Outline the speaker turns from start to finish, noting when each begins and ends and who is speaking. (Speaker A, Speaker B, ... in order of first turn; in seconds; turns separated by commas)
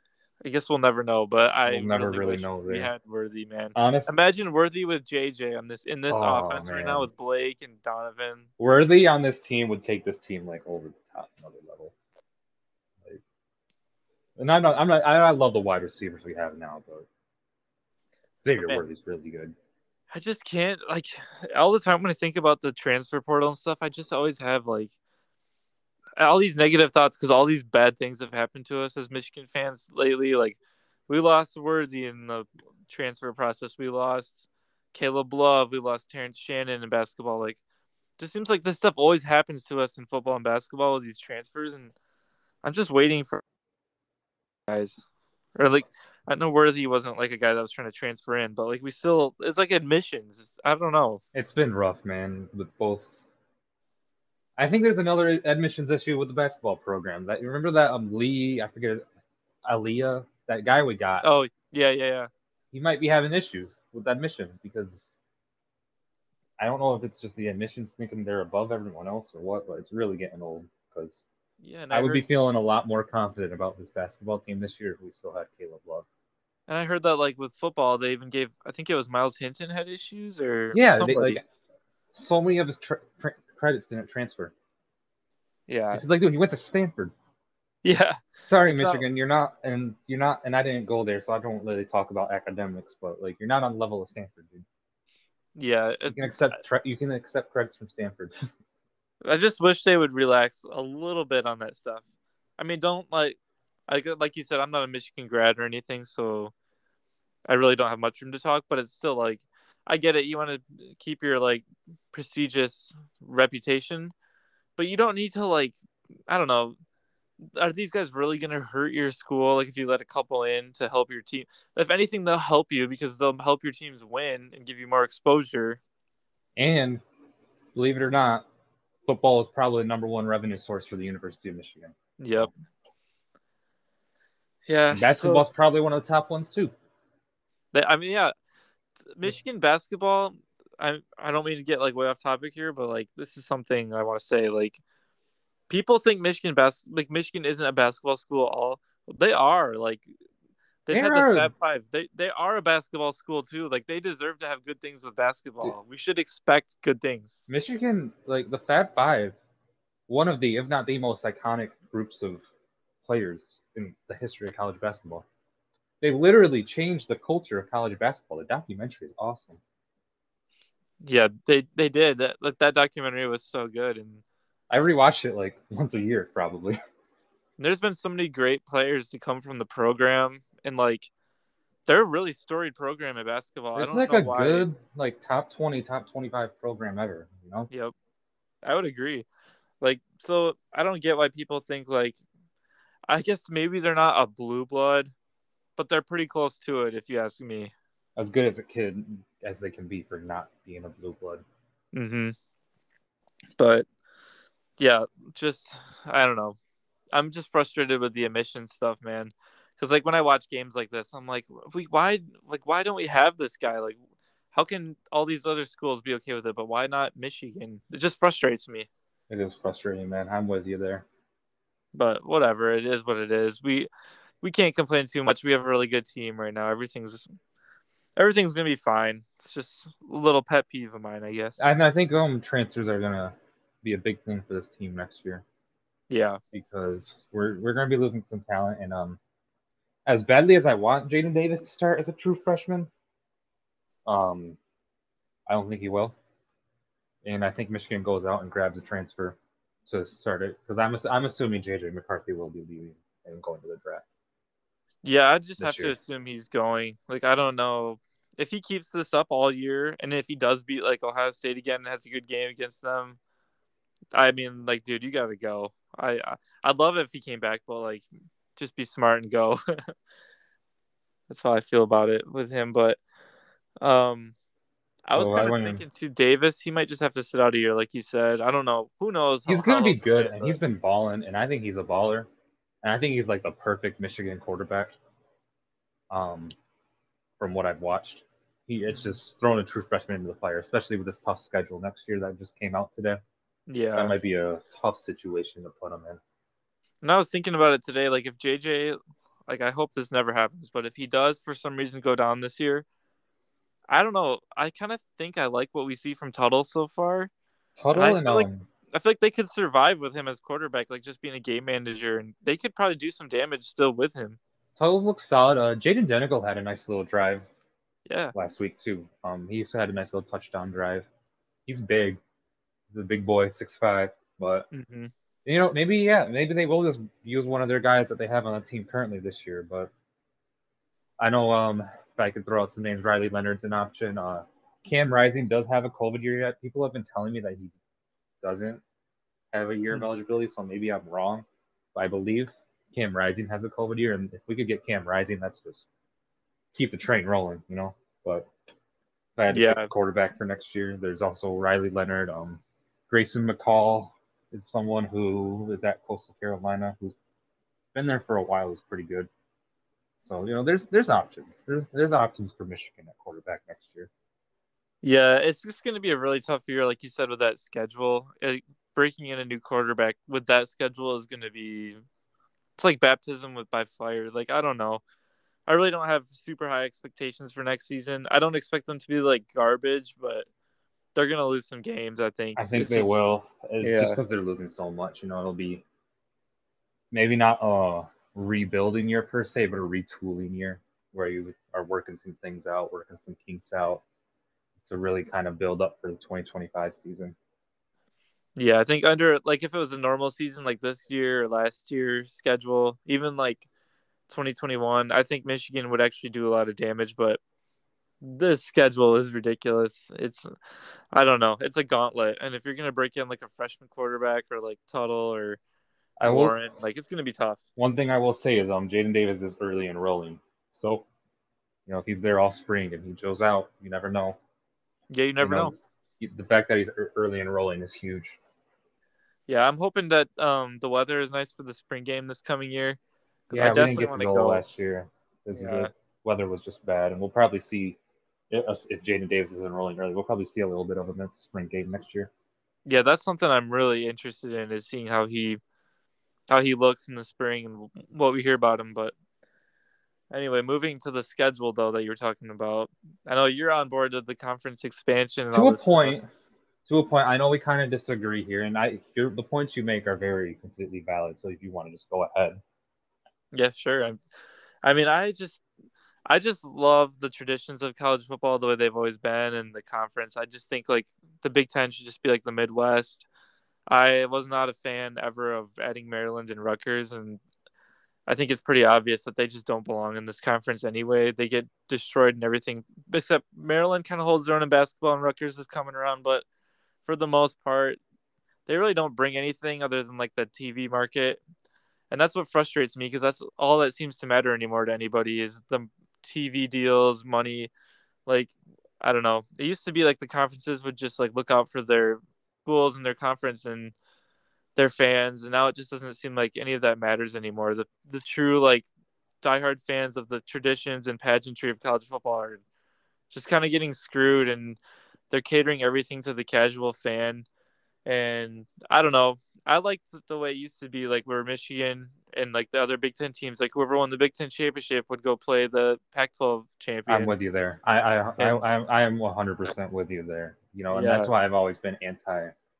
Speaker A: 0.4-8.5, Speaker B: 1.7-2.9, Speaker B: 3.8-4.1, Speaker B: 6.1-7.1, Speaker B: 8.6-11.9, Speaker B: 14.4-17.1, Speaker B: 18.4-19.5, Speaker A: 20.1-24.9, Speaker A: 26.2-37.6, Speaker A: 38.2-41.9, Speaker A: 42.6-43.4, Speaker A: 44.7-45.0, Speaker A: 45.5-51.2, Speaker B: 51.3-53.2, Speaker B: 54.6-59.0, Speaker B: 59.6-61.2, Speaker A: 61.2-62.3, Speaker B: 62.7-65.0, Speaker B: 66.6-71.2, Speaker A: 71.6-72.3, Speaker B: 71.9-76.1, Speaker A: 76.7-81.4, Speaker B: 80.7-81.4, Speaker B: 82.1-84.5, Speaker A: 85.7-86.0, Speaker B: 85.9-87.1, Speaker A: 87.8-89.1, Speaker B: 88.5-94.7, Speaker A: 95.6-96.6, Speaker B: 96.1-98.5, Speaker A: 99.2-102.0, Speaker A: 102.6-106.5, Speaker A: 107.5-114.1, Speaker A: 114.8-115.8, Speaker A: 116.3-116.8, Speaker A: 117.4-125.8, Speaker B: 126.6-127.0, Speaker B: 127.8-128.5, Speaker B: 129.0-132.5, Speaker A: 132.2-132.5, Speaker A: 134.7-135.5, Speaker B: 134.9-136.7, Speaker A: 137.7-138.3, Speaker A: 139.1-144.8, Speaker A: 145.7-150.1, Speaker A: 150.9-157.5, Speaker B: 150.9-151.5, Speaker B: 157.5-159.4, Speaker B: 160.1-162.4, Speaker B: 163.0-165.3, Speaker B: 166.0-169.6, Speaker A: 171.0-174.2, Speaker B: 174.7-176.8, Speaker A: 177.6-181.1, Speaker A: 181.9-184.7, Speaker B: 183.8-187.7, Speaker A: 188.6-189.3, Speaker A: 189.8-192.2, Speaker A: 193.1-195.1, Speaker A: 195.8-197.7, Speaker B: 198.2-201.4, Speaker A: 201.9-202.3, Speaker A: 203.6-203.9, Speaker A: 204.8-206.6, Speaker A: 207.1-214.0, Speaker A: 214.5-218.9, Speaker B: 219.3-221.1, Speaker A: 221.9-223.9, Speaker A: 224.4-227.3, Speaker A: 228.2-231.6, Speaker B: 231.6-235.4, Speaker A: 236.1-236.4, Speaker B: 236.5-239.2, Speaker B: 240.1-242.9, Speaker B: 244.1-244.6, Speaker B: 245.5-246.2, Speaker B: 247.2-254.1, Speaker A: 255.0-263.2, Speaker B: 255.6-255.9, Speaker A: 264.1-269.9, Speaker A: 271.3-273.0, Speaker A: 273.8-274.4, Speaker A: 275.1-280.6, Speaker B: 275.1-275.8, Speaker B: 279.5-282.3, Speaker B: 282.8-284.9, Speaker B: 286.1-286.6, Speaker B: 287.4-293.2, Speaker A: 293.7-294.2, Speaker B: 294.0-296.2, Speaker A: 297.0-302.9, Speaker A: 303.9-307.3, Speaker B: 307.8-308.7, Speaker A: 307.9-314.4, Speaker B: 314.8-317.5, Speaker A: 318.1-318.3, Speaker B: 318.3-321.1, Speaker B: 321.7-322.2, Speaker B: 322.9-324.7, Speaker A: 324.7-325.1, Speaker B: 325.5-329.9, Speaker B: 331.2-337.7, Speaker B: 338.4-338.8, Speaker B: 339.5-345.9, Speaker B: 346.7-348.5, Speaker B: 349.4-357.2, Speaker A: 349.5-349.9, Speaker B: 357.9-359.3, Speaker B: 360.2-364.1, Speaker A: 365.0-372.0, Speaker A: 372.8-375.0, Speaker A: 375.7-380.5, Speaker A: 381.1-383.2, Speaker B: 382.6-385.8, Speaker A: 383.8-384.2, Speaker B: 387.1-394.0, Speaker B: 394.9-397.4, Speaker A: 398.6-403.7, Speaker A: 404.3-407.4, Speaker A: 408.2-410.5, Speaker A: 411.1-415.6, Speaker B: 416.2-416.6, Speaker A: 416.2-417.6, Speaker B: 417.8-421.1, Speaker B: 421.9-424.4, Speaker A: 425.1-425.8, Speaker B: 425.4-428.4, Speaker A: 429.5-434.6, Speaker B: 433.5-438.0, Speaker A: 435.5-435.9, Speaker B: 438.5-442.3, Speaker A: 442.9-445.6, Speaker A: 446.5-449.1, Speaker A: 450.3-456.2, Speaker B: 455.5-456.3, Speaker B: 456.9-462.6, Speaker A: 463.5-464.2, Speaker A: 464.8-465.6, Speaker A: 466.3-473.3, Speaker A: 473.9-477.4, Speaker A: 478.3-486.4, Speaker A: 487.0-488.0, Speaker A: 488.7-491.4, Speaker A: 492.1-497.7, Speaker A: 498.3-503.9, Speaker A: 504.8-508.9, Speaker A: 509.4-512.6, Speaker A: 513.3-514.8, Speaker A: 515.3-517.5, Speaker A: 518.1-527.4, Speaker B: 527.1-532.5, Speaker A: 528.4-528.6, Speaker A: 530.9-531.3